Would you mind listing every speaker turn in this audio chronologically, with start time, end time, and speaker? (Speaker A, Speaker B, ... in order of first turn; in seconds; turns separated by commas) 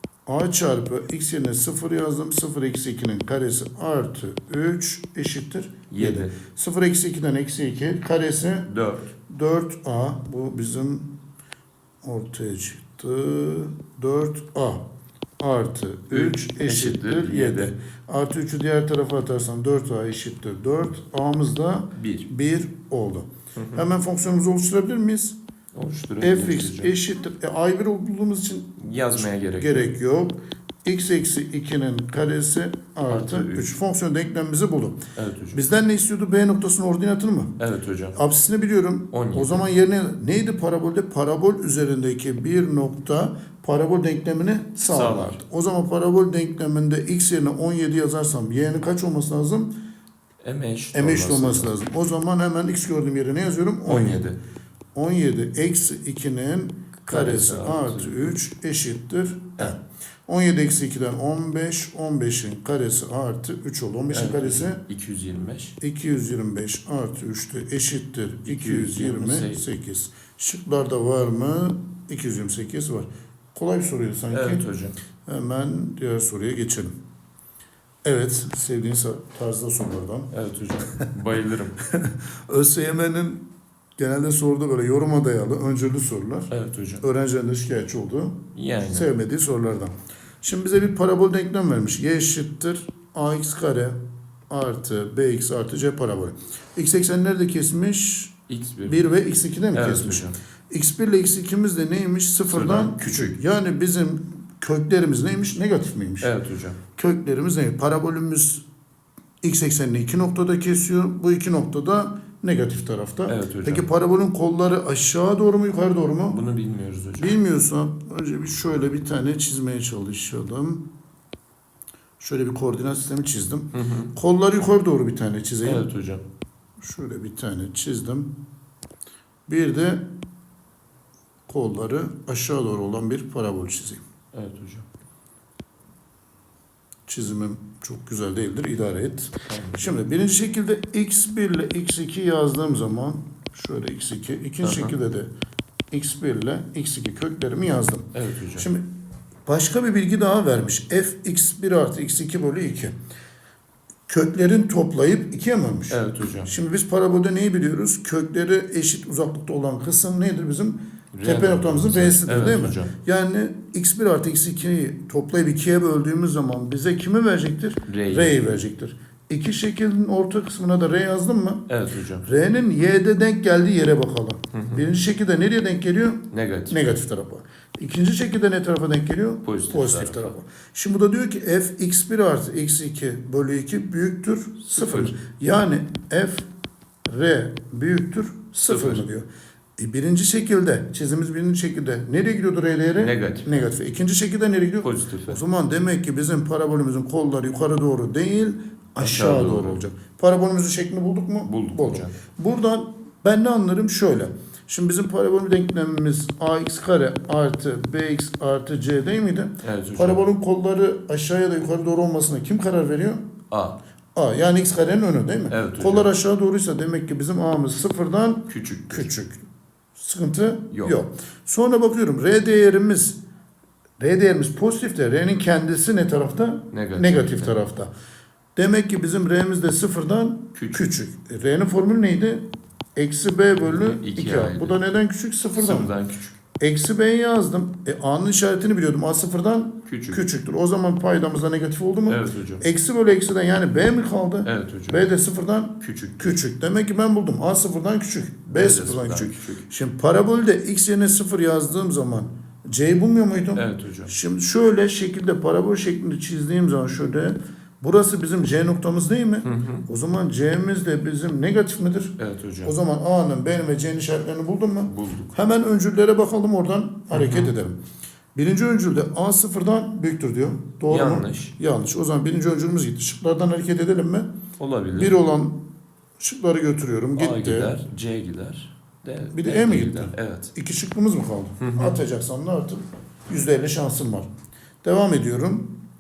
Speaker A: 0.3-8.7, Speaker B: 5.9-6.3, Speaker B: 8.7-9.1, Speaker A: 9.3-11.1, Speaker A: 12.0-14.8, Speaker A: 15.4-25.4, Speaker B: 16.1-17.7, Speaker B: 21.9-22.3, Speaker B: 23.6-23.8, Speaker B: 25.7-26.9, Speaker A: 26.2-35.0, Speaker B: 28.8-29.9, Speaker B: 33.1-33.7, Speaker B: 35.1-35.6, Speaker A: 35.5-37.5, Speaker B: 37.6-38.2, Speaker A: 38.1-49.7, Speaker B: 39.1-39.7, Speaker B: 44.9-45.4, Speaker B: 50.4-51.7, Speaker A: 50.9-54.3, Speaker B: 53.9-54.4, Speaker A: 55.0-64.8, Speaker B: 57.1-58.4, Speaker B: 64.1-65.8, Speaker A: 65.8-74.7, Speaker B: 68.5-69.6, Speaker B: 74.3-75.0, Speaker A: 75.2-76.9, Speaker A: 78.0-80.3, Speaker B: 80.3-81.8, Speaker A: 81.9-83.5, Speaker A: 84.0-94.0, Speaker B: 86.5-87.0, Speaker B: 88.5-89.1, Speaker A: 94.5-106.3, Speaker B: 98.5-99.1, Speaker B: 99.7-100.4, Speaker B: 102.5-103.4, Speaker B: 106.2-106.8, Speaker A: 107.0-108.6, Speaker A: 109.4-116.4, Speaker B: 113.3-113.9, Speaker B: 116.3-117.4, Speaker A: 117.2-120.8, Speaker A: 122.2-125.9, Speaker B: 123.7-124.1, Speaker B: 125.6-126.2, Speaker A: 126.8-128.3, Speaker A: 129.5-130.1, Speaker A: 131.5-134.0, Speaker B: 134.3-134.9, Speaker A: 137.1-145.3, Speaker B: 139.4-139.9, Speaker B: 144.6-145.0, Speaker A: 145.9-148.9, Speaker B: 148.1-148.7, Speaker A: 149.5-152.9, Speaker A: 154.1-171.7, Speaker B: 155.9-156.5, Speaker B: 161.1-162.9, Speaker B: 167.9-168.5, Speaker B: 171.7-172.3, Speaker A: 172.2-186.5, Speaker B: 174.5-174.9, Speaker B: 176.3-177.0, Speaker B: 179.4-180.3, Speaker B: 184.7-185.1, Speaker A: 187.1-189.3, Speaker B: 188.7-189.1, Speaker A: 189.8-213.2, Speaker B: 193.0-193.7, Speaker B: 194.8-195.4, Speaker B: 199.0-199.8, Speaker B: 201.5-202.1, Speaker B: 209.6-210.3, Speaker B: 213.5-213.8, Speaker A: 214.2-219.4, Speaker B: 215.5-216.1, Speaker B: 218.5-219.1, Speaker A: 220.0-223.2, Speaker B: 220.7-221.0, Speaker A: 224.0-227.9, Speaker B: 226.7-227.6, Speaker A: 228.6-232.4, Speaker B: 230.6-230.9, Speaker A: 233.0-235.9, Speaker B: 233.5-234.8, Speaker B: 235.6-236.4, Speaker A: 236.6-267.8, Speaker B: 239.9-240.2, Speaker B: 242.1-242.6, Speaker B: 244.4-245.1, Speaker B: 245.8-246.4, Speaker B: 248.5-249.6, Speaker B: 253.6-254.1, Speaker B: 259.4-259.9, Speaker B: 262.2-262.8, Speaker B: 264.9-265.3, Speaker B: 267.1-267.5, Speaker A: 268.4-274.3, Speaker B: 270.9-271.5, Speaker B: 274.6-275.2, Speaker A: 274.9-275.6, Speaker A: 276.2-277.7, Speaker B: 277.2-280.5, Speaker A: 279.3-284.3, Speaker B: 281.6-282.0, Speaker A: 284.8-285.7